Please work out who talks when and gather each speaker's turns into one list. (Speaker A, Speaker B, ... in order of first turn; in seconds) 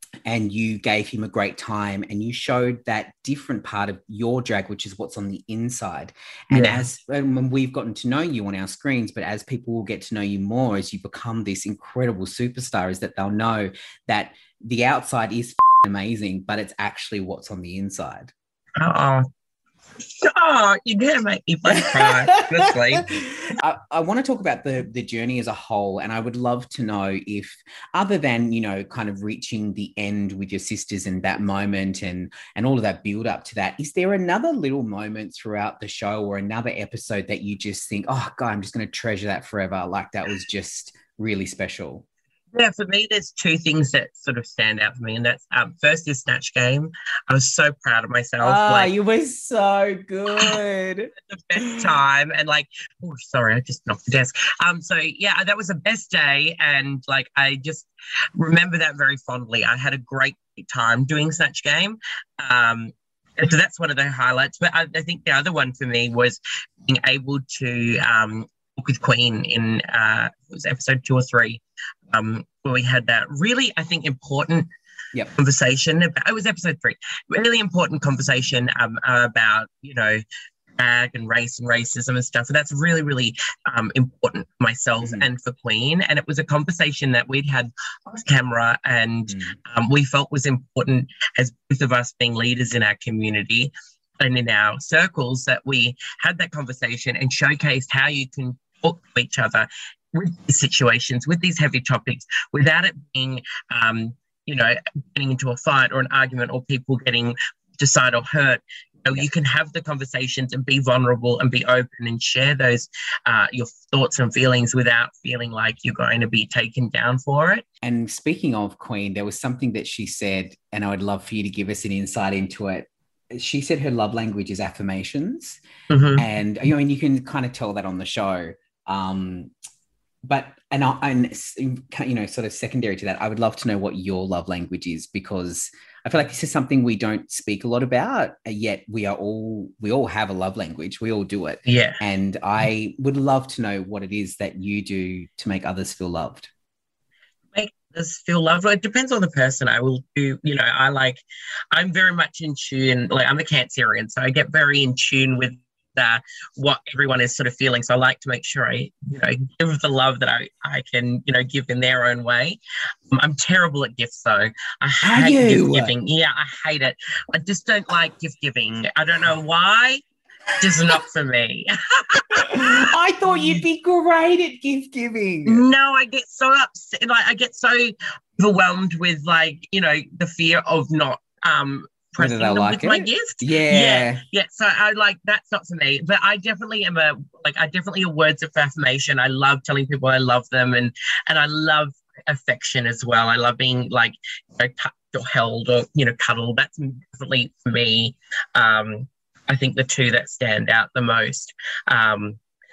Speaker A: 0.2-18.3, 21.7-42.0, 48.4-52.0, 85.0-85.3, 89.3-89.5, 117.8-125.6, 126.2-129.5, 130.3-146.5, 165.0-165.9, 170.7-171.0, 172.3-175.6, 182.2-184.2
Speaker B: 6.5-6.8, 18.8-19.3, 20.0-23.1, 42.5-48.9, 51.3-71.6, 72.1-74.7, 75.3-80.2, 80.8-117.6, 125.9-126.2, 141.7-142.0, 147.5-162.6, 163.1-170.0, 170.6-173.6, 175.4-202.4